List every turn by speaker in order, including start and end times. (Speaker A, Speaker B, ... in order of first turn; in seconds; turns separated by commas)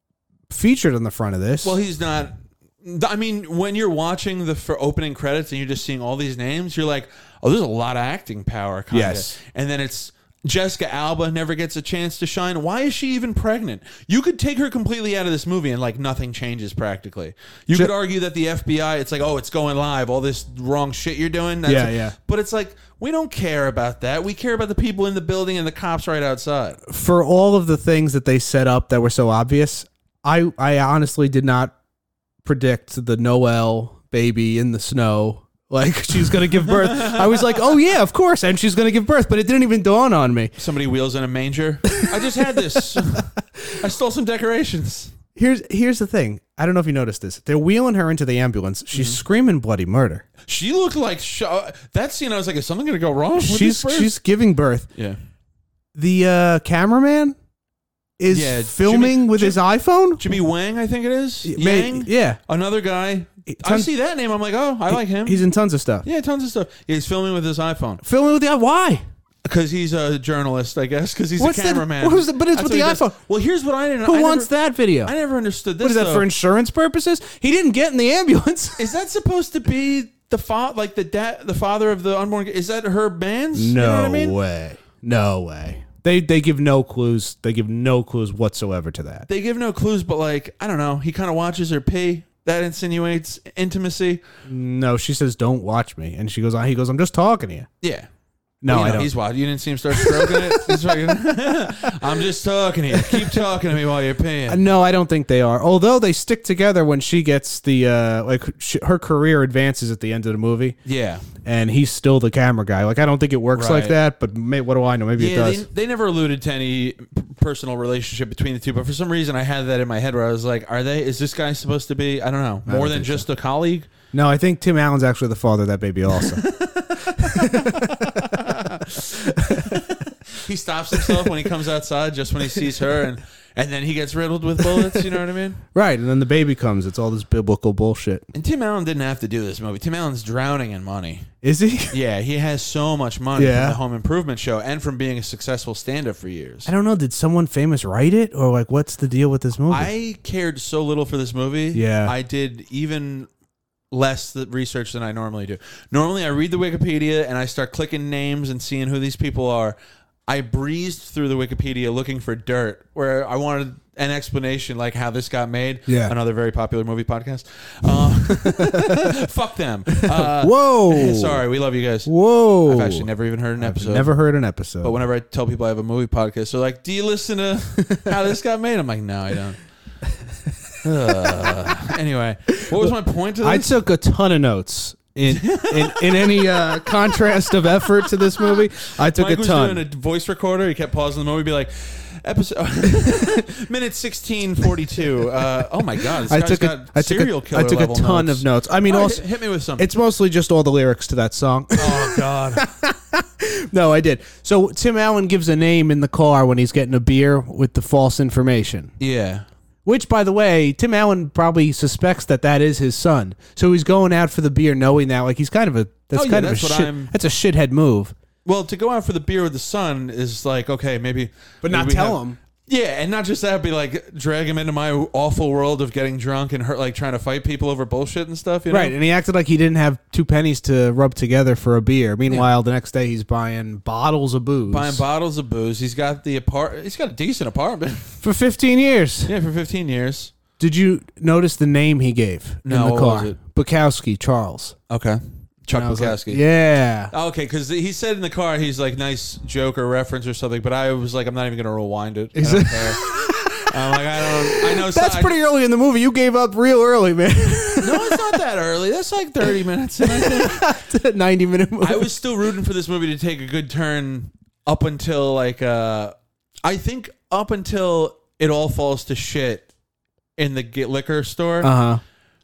Speaker A: 0.5-1.8, Speaker B: 1.6-26.8, Speaker A: 8.9-9.3, Speaker A: 21.7-22.1, Speaker A: 26.9-31.7, Speaker A: 32.4-40.5, Speaker B: 36.7-37.6, Speaker B: 40.6-45.1, Speaker A: 41.9-43.8, Speaker A: 45.3-50.2, Speaker B: 48.9-49.2, Speaker B: 50.4-54.1, Speaker A: 53.3-54.9, Speaker A: 55.9-57.3, Speaker A: 58.2-60.2, Speaker B: 58.3-59.6, Speaker B: 60.2-65.5, Speaker A: 61.4-62.4, Speaker A: 63.5-63.9, Speaker A: 64.9-66.0, Speaker B: 66.0-68.0, Speaker A: 68.0-69.0, Speaker B: 69.4-74.5, Speaker A: 71.4-73.2, Speaker A: 74.0-75.1, Speaker B: 75.0-76.3, Speaker A: 75.8-78.9, Speaker B: 78.8-84.3, Speaker A: 83.5-89.3, Speaker B: 89.3-94.2, Speaker A: 94.5-97.7, Speaker B: 97.8-98.1, Speaker A: 98.6-99.1, Speaker B: 98.7-104.6, Speaker A: 99.9-100.9, Speaker A: 102.9-103.4, Speaker A: 104.5-110.8, Speaker B: 110.8-111.3, Speaker A: 111.4-115.7, Speaker B: 113.5-114.0, Speaker B: 115.2-123.9, Speaker A: 122.7-123.2, Speaker A: 124.1-126.5, Speaker B: 126.1-135.6, Speaker A: 127.0-129.8, Speaker A: 130.9-131.3, Speaker A: 134.6-135.1, Speaker A: 135.7-138.3, Speaker B: 138.3-141.3, Speaker A: 141.4-142.0, Speaker B: 141.9-146.7, Speaker A: 143.3-143.8, Speaker A: 146.7-149.9, Speaker B: 149.7-153.3, Speaker A: 151.7-152.1, Speaker B: 153.9-159.7, Speaker B: 160.3-172.1, Speaker A: 165.9-166.1, Speaker A: 168.0-169.2, Speaker A: 169.9-171.4, Speaker A: 172.0-174.9, Speaker B: 172.6-174.1, Speaker B: 174.8-179.6, Speaker A: 177.9-178.1, Speaker B: 180.8-183.8, Speaker A: 181.1-181.7, Speaker A: 182.5-182.9, Speaker A: 183.4-189.8, Speaker B: 185.3-186.7, Speaker B: 188.5-199.8, Speaker A: 196.1-199.2, Speaker A: 199.8-208.9, Speaker B: 201.8-202.6, Speaker B: 209.0-209.4, Speaker A: 209.8-218.1, Speaker B: 216.1-217.1, Speaker B: 218.4-228.9, Speaker A: 221.6-222.4, Speaker A: 228.7-235.0, Speaker B: 234.7-238.2, Speaker A: 238.2-239.3, Speaker B: 239.2-240.3, Speaker A: 240.6-244.8, Speaker B: 242.6-243.3, Speaker B: 244.9-246.4, Speaker A: 245.7-247.1, Speaker B: 247.1-253.1, Speaker A: 252.3-258.4, Speaker B: 253.7-255.4, Speaker B: 257.8-260.7, Speaker A: 260.0-262.2, Speaker B: 261.8-269.7, Speaker B: 270.4-271.7, Speaker A: 271.6-272.0